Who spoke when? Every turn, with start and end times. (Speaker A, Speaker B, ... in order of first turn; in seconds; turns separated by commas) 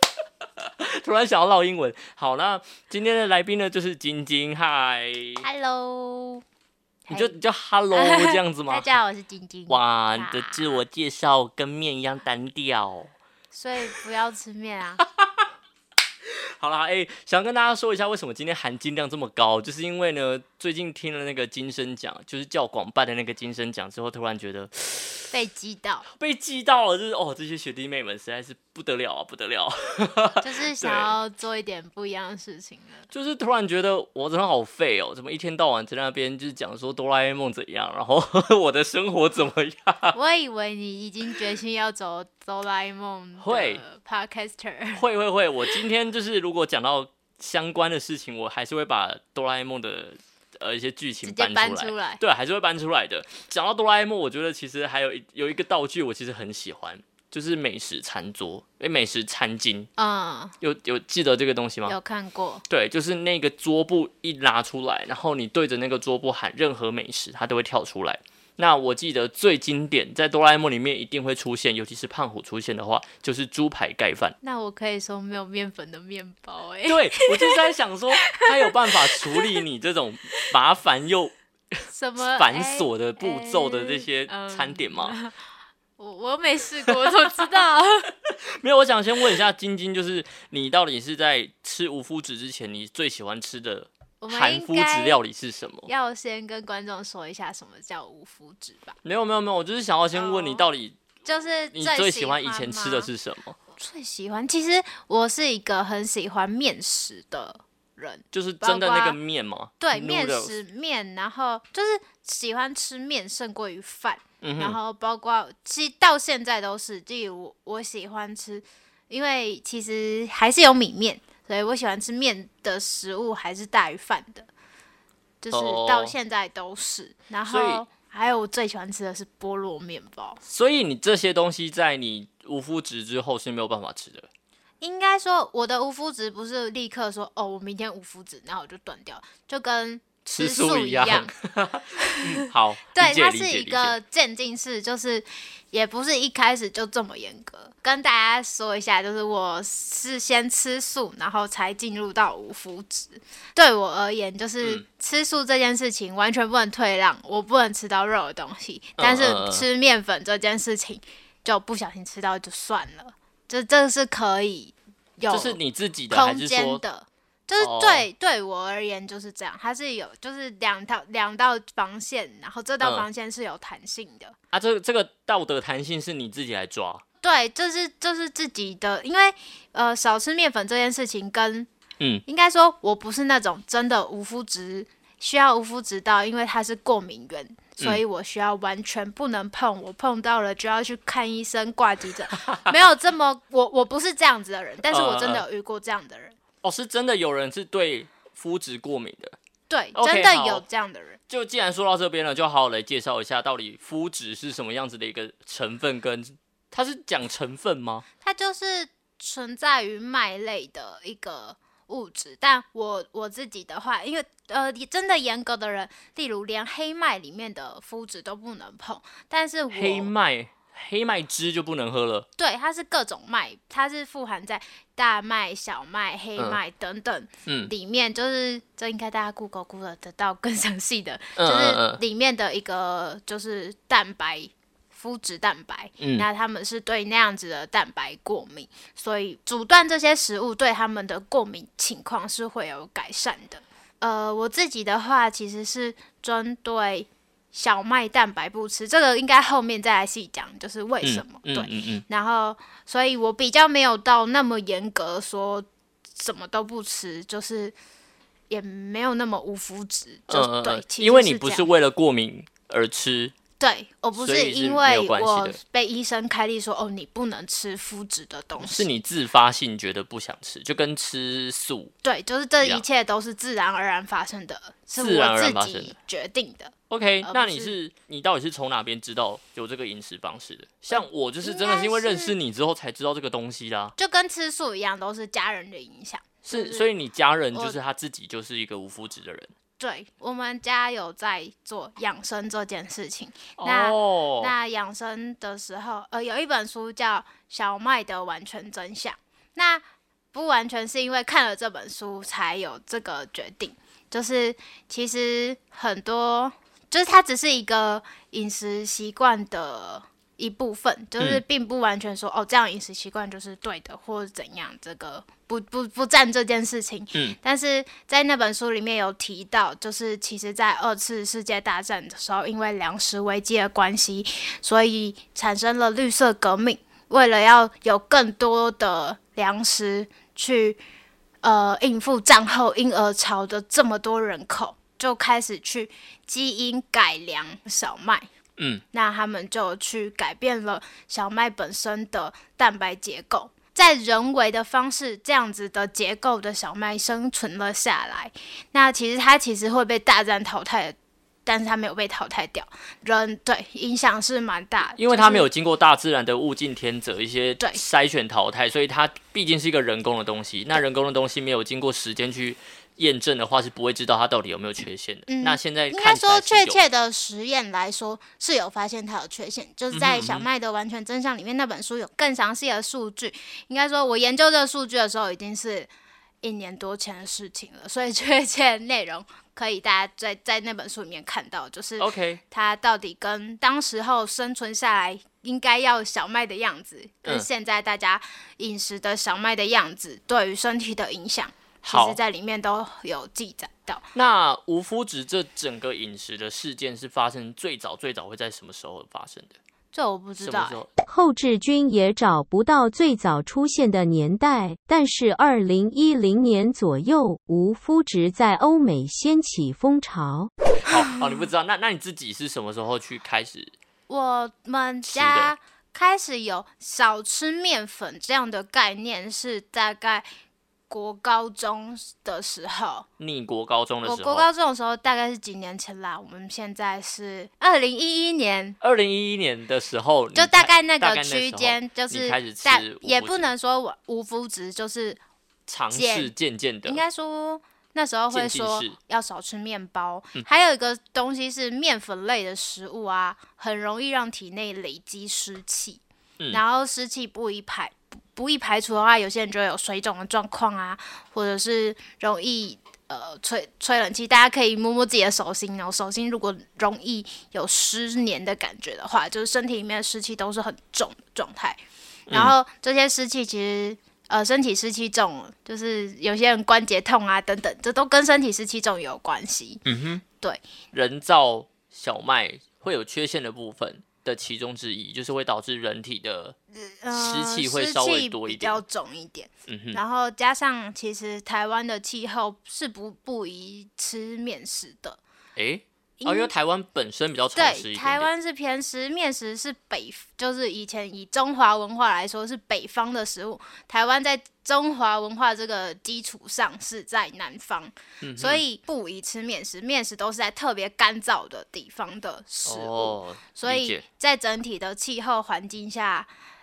Speaker A: 0.6-5.5, Speaker B: 5.4-6.4, Speaker B: 7.1-7.3, Speaker A: 7.1-9.0, Speaker B: 7.9-10.8, Speaker A: 9.7-13.1, Speaker B: 13.5-15.0, Speaker A: 15.1-15.4, Speaker A: 16.6-25.2, Speaker B: 25.3-26.1, Speaker A: 26.1-31.1, Speaker B: 30.4-33.1, Speaker A: 33.1-40.1, Speaker B: 40.1-45.0, Speaker A: 43.4-43.8, Speaker A: 44.9-59.9, Speaker B: 51.2-52.2, Speaker B: 60.0-60.5, Speaker A: 60.6-62.0, Speaker B: 61.9-62.6, Speaker A: 62.7-74.4, Speaker B: 74.4-77.6, Speaker A: 76.8-85.2, Speaker B: 78.2-79.6, Speaker B: 81.9-85.3, Speaker B: 86.0-88.1, Speaker A: 86.8-87.3, Speaker A: 88.2-95.9, Speaker B: 94.2-95.2, Speaker B: 95.8-99.0, Speaker A: 99.0-101.0, Speaker B: 100.1-100.6, Speaker B: 101.2-103.1, Speaker A: 101.7-103.6, Speaker B: 103.8-109.2, Speaker A: 108.3-110.6, Speaker B: 109.8-124.5, Speaker A: 114.4-114.8, Speaker B: 125.4-130.4, Speaker A: 125.5-126.1, Speaker A: 127.5-127.8, Speaker A: 130.4-134.3, Speaker B: 134.8-141.3, Speaker A: 140.3-144.0, Speaker B: 142.0-165.6, Speaker A: 159.0-159.7, Speaker A: 165.3-166.8, Speaker B: 166.1-174.3, Speaker A: 167.6-168.1, Speaker A: 174.5-177.0, Speaker B: 177.2-181.7, Speaker B: 182.2-196.3, Speaker A: 192.4-192.7, Speaker A: 194.9-195.4, Speaker A: 196.6-199.3, Speaker B: 199.7-201.2, Speaker A: 199.9-200.6, Speaker A: 201.3-208.0, Speaker B: 208.2-220.1, Speaker A: 219.7-222.3, Speaker B: 222.4-257.8, Speaker A: 227.4-227.7, Speaker A: 231.4-232.0, Speaker A: 236.0-236.3, Speaker A: 251.0-252.1, Speaker B: 258.5-261.7, Speaker A: 260.3-263.3, Speaker B: 263.6-268.9, Speaker A: 264.2-265.6, Speaker A: 268.6-271.9, Speaker B: 272.0-277.8, Speaker A: 272.6-272.8, Speaker A: 275.0-275.9, Speaker A: 276.9-283.9, Speaker B: 280.9-282.4, Speaker B: 284.0-286.9, Speaker A: 286.4-289.5, Speaker B: 289.8-330.8, Speaker A: 293.6-294.5, Speaker B: 331.4-338.3, Speaker A: 338.6-338.8, Speaker B: 338.9-355.5, Speaker A: 355.0-366.8, Speaker B: 365.3-375.9, Speaker A: 369.9-370.4, Speaker B: 376.4-394.1, Speaker A: 382.0-382.4, Speaker A: 391.8-392.2, Speaker A: 394.1-399.6, Speaker B: 399.9-400.8, Speaker A: 400.4-400.9, Speaker C: 401.1-410.5, Speaker A: 410.8-413.7, Speaker B: 414.1-420.2, Speaker A: 415.1-415.5, Speaker B: 420.9-423.1, Speaker A: 423.2-424.5, Speaker B: 424.0-428.8, Speaker A: 428.8-433.5, Speaker B: 430.3-435.2, Speaker A: 435.7-437.0, Speaker B: 435.9-436.3, Speaker B: 436.8-469.8, Speaker A: 438.3-438.9, Speaker A: 462.3-462.6, Speaker A: 469.8-470.2, Speaker A: 470.9-476.6, Speaker B: 476.7-485.2, Speaker A: 477.1-478.8, Speaker A: 479.7-480.0, Speaker A: 485.6-488.3, Speaker B: 486.2-486.5, Speaker B: 487.6-506.3, Speaker A: 498.2-498.6, Speaker A: 502.6-504.1